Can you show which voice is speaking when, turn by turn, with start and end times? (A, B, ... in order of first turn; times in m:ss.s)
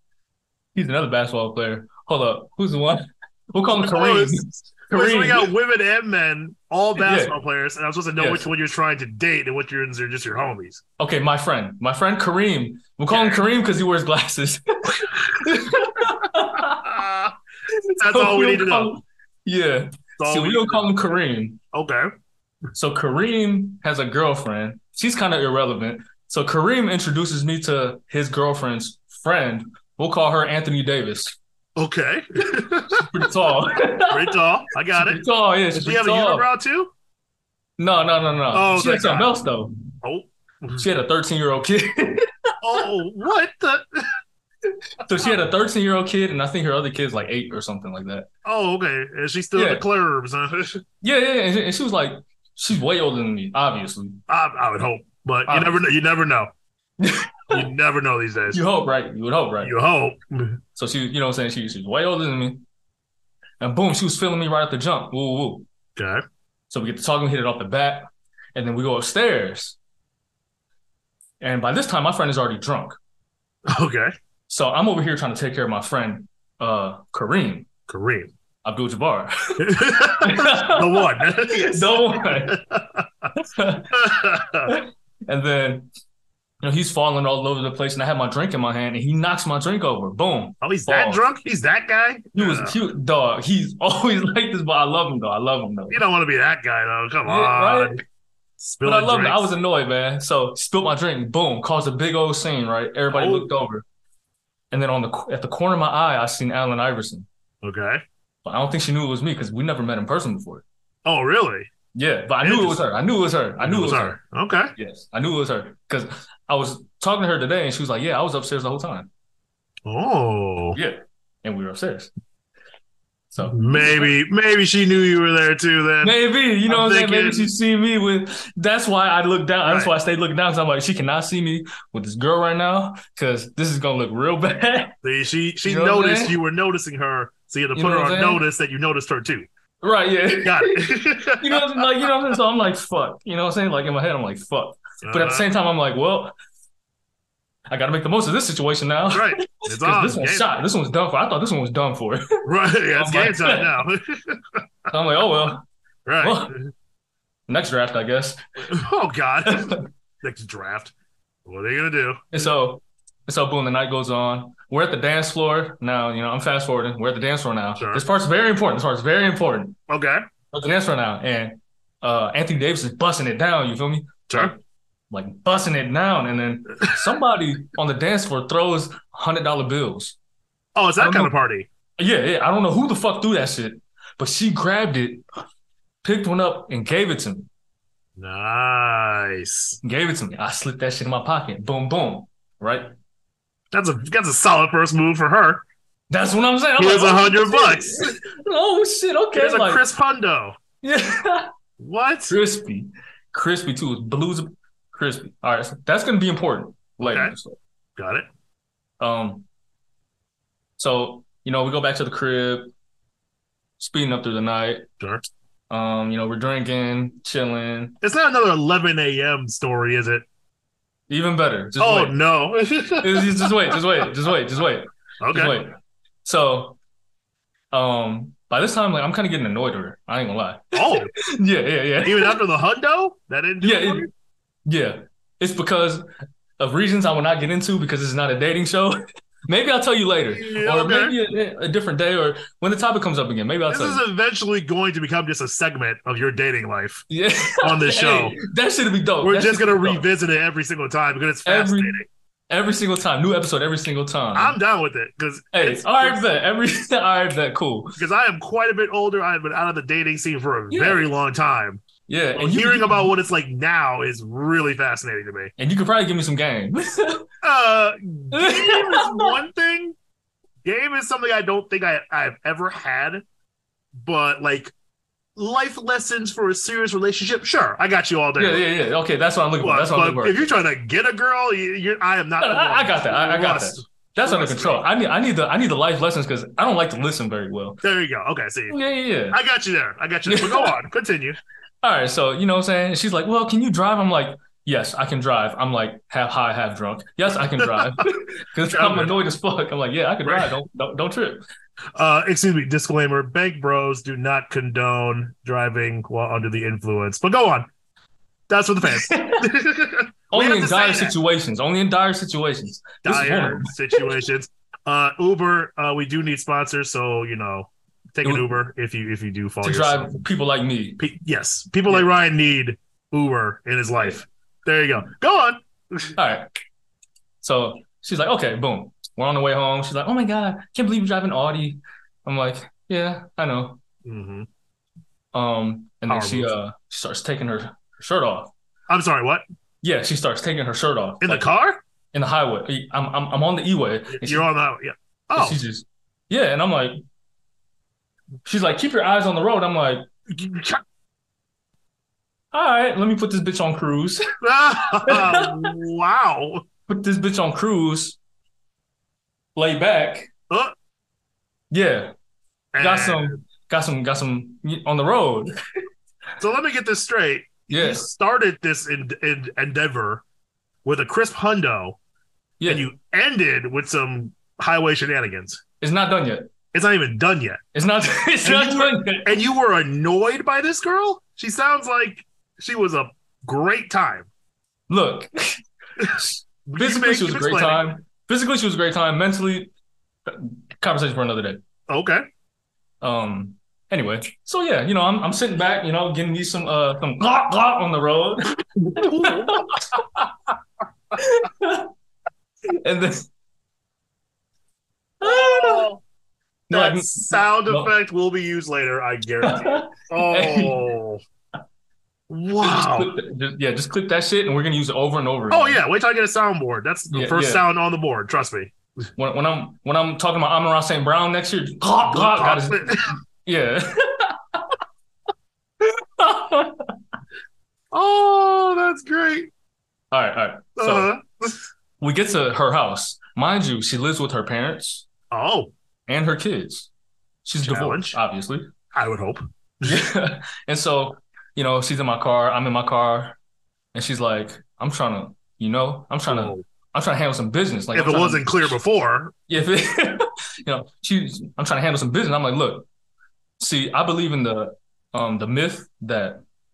0:00.8-0:05.5 A
0:03.7-0:10.8 B
0:07.0-0:07.4 A
0:08.2-0:08.5 A
0:11.0-0:17.0 A
0:13.1-0:13.4 B
0:14.9-0:17.3 B
0:17.7-0:21.6 A
0:18.0-0:19.0 B
0:20.2-0:20.9 B
0:21.7-0:22.1 B
0:22.8-0:31.4 A
0:31.8-0:33.3 B
0:32.9-0:34.3 A
0:34.1-0:35.2 B
0:34.9-0:36.5 A
0:35.7-0:36.9 B
0:37.8-0:39.7 A
0:38.5-0:39.3 B
0:40.0-0:40.8 B
0:40.8-0:42.4 A
0:42.6-0:44.1 B
0:44.9-0:48.3 A
0:48.4-0:50.8 B
0:49.6-0:49.8 A
0:51.0-0:54.2 A
0:54.3-0:56.5 B
0:55.5-0:55.8 A
0:57.0-0:57.7 A
0:57.5-0:58.6 B
0:58.5-0:59.7 A
0:59.6-1:00.6 B
1:00.8-1:02.6 A
1:03.6-1:05.7 A
1:06.0-1:06.2 B
1:06.7-1:09.8 A
1:11.4-1:13.0 A
1:13.7-1:14.1 B
1:14.5-1:17.7 A
1:17.9-1:18.3 B
1:18.6-1:22.6 A
1:19.6-1:23.3 B
1:23.4-1:23.9 A
1:23.9-1:24.7 B
1:24.7-1:25.9 A
1:26.6-1:31.2 A
1:30.6-1:32.8 B
1:32.3-1:36.0 A
1:35.9-1:38.0 B
1:37.3-1:38.0 A
1:38.6-1:39.5 B
1:38.8-1:43.8 A
1:43.1-1:43.5 B
1:44.7-1:47.3 A
1:47.6-1:48.0 B
1:48.4-1:50.6 A
1:51.0-1:51.7 B
1:51.9-1:54.2 A
1:52.4-1:52.8 B
1:53.6-1:54.7 B
1:54.8-1:59.1 A
1:59.8-2:00.8 B
2:00.7-2:02.1 A
2:03.3-2:03.6 A
2:03.4-2:06.2 B
2:06.0-2:15.0 A
2:06.7-2:07.5 B
2:09.6-2:09.9 B
2:15.0-2:19.5 B
2:15.6-2:16.4 A
2:17.8-2:18.4 A
2:19.8-2:26.3 A
2:20.4-2:22.1 B
2:25.0-2:25.5 B
2:27.7-2:33.8 A
2:29.1-2:30.5 B
2:32.4-2:34.9 B
2:34.9-2:35.6 A
2:36.1-2:36.7 B
2:36.2-2:36.5 A
2:37.5-2:38.4 A
2:38.7-2:40.9 B
2:39.5-2:39.8 A
2:41.5-2:42.4 B
2:42.3-2:49.8 A
2:47.8-2:48.0 B
2:49.9-2:50.2 B
2:50.5-2:54.6 A
2:55.1-3:00.2 A
3:00.8-3:01.7 B
3:01.0-3:01.3 A
3:02.0-3:05.2 A
3:06.0-3:07.5 A
3:08.2-3:09.8 B
3:09.8-3:12.9 A
3:13.7-3:15.6 B
3:16.1-3:19.8 A
3:16.8-3:18.2 B
3:19.4-3:20.6 B
3:20.8-3:21.5 A
3:21.8-3:22.4 B
3:22.3-3:27.6 A
3:27.0-3:27.4 B
3:28.0-3:28.3 B
3:29.0-3:29.5 A
3:30.8-3:32.7 A
3:33.8-3:34.9 A
3:35.0-3:35.2 B
3:35.7-3:38.0 A
3:38.0-3:40.3 B
3:41.1-3:42.2 A
3:41.8-3:43.8 B
3:43.0-3:46.8 A
3:45.2-3:45.6 B
3:47.7-3:52.4 A
3:50.7-3:51.1 B
3:52.0-3:54.1 B
3:53.6-3:54.1 A
3:54.7-3:56.1 A
3:56.6-4:04.0 A
4:00.3-4:01.2 B
4:03.7-4:07.0 B
4:07.1-4:10.0 A
4:07.6-4:08.4 B
4:09.2-4:12.1 B
4:11.4-4:14.6 A
4:14.3-4:16.2 B
4:15.5-4:18.0 A
4:18.0-4:21.8 B
4:20.7-4:21.1 A
4:22.1-4:23.1 A
4:22.4-4:25.5 B
4:25.6-4:27.2 A
4:27.4-4:30.0 B
4:28.3-4:29.3 A
4:30.6-4:33.2 B
4:34.0-4:34.7 B
4:35.4-4:38.7 B
4:38.4-4:40.5 A
4:39.6-4:44.9 B
4:42.4-4:47.8 A
4:47.8-4:48.8 B
4:48.7-4:49.4 A
4:49.3-4:51.4 B
4:50.3-4:50.8 A
4:51.8-5:01.4 A
4:58.7-4:59.1 B
5:00.2-5:00.5 B
5:02.0-5:07.7 B
5:08.5-5:11.1 B
5:08.9-5:09.5 A
5:10.3-5:14.1 A
5:13.0-5:20.2 B
5:18.2-5:18.5 A
5:19.6-5:21.0 A
5:21.0-5:26.1 B
5:26.2-5:26.5 A
5:27.4-5:33.8 A
5:34.0-5:34.5 B
5:35.3-5:38.5 A
5:36.1-5:36.5 B
5:38.9-5:39.4 B
5:39.8-5:41.5 A
5:41.2-5:41.8 B
5:42.1-5:44.5 A
5:44.1-5:45.6 B
5:45.4-5:47.0 A
5:48.4-5:50.1 A
5:50.3-5:50.8 B
5:52.5-5:54.2 A
5:54.4-5:56.6 B
5:55.1-5:55.7 A
5:56.9-5:58.2 A
5:59.6-6:00.3 A
6:01.7-6:02.1 A
6:02.7-6:03.4 B
6:02.8-6:05.5 A
6:06.4-6:10.2 B
6:07.7-6:08.1 A
6:10.8-6:12.0 B
6:12.6-6:12.9 A
6:12.7-6:15.6 B
6:15.8-6:16.5 A
6:16.7-6:17.6 B
6:17.8-6:19.3 A
6:18.4-6:24.3 B
6:24.9-6:29.7 A
6:26.0-6:27.9 B
6:30.3-6:31.6 A
6:31.9-6:32.2 B
6:33.0-6:39.8 A
6:39.0-6:40.2 B
6:41.2-6:41.9 A
6:42.8-6:43.3 A
6:45.2-6:45.9 A
6:45.2-6:46.0 B
6:46.7-6:47.9 A
6:46.7-6:51.2 B
6:49.4-6:50.8 A
6:52.3-6:53.1 B
6:52.6-6:55.8 A
6:55.5-6:58.7 B
6:57.1-6:57.7 A
6:59.2-7:04.8 A
7:01.8-7:03.2 B
7:05.8-7:06.9 A
7:07.9-7:09.5 B
7:10.1-7:11.1 A
7:10.8-7:11.6 B
7:12.0-7:15.1 A
7:15.3-7:15.7 B
7:16.1-7:16.9 A
7:17.4-7:18.7 A
7:17.6-7:18.2 B
7:18.9-7:20.0 B
7:19.8-7:23.4 A
7:23.9-7:28.7 A
7:26.3-7:26.6 B
7:27.9-7:29.3 B
7:29.5-7:32.9 A
7:33.6-7:36.4 A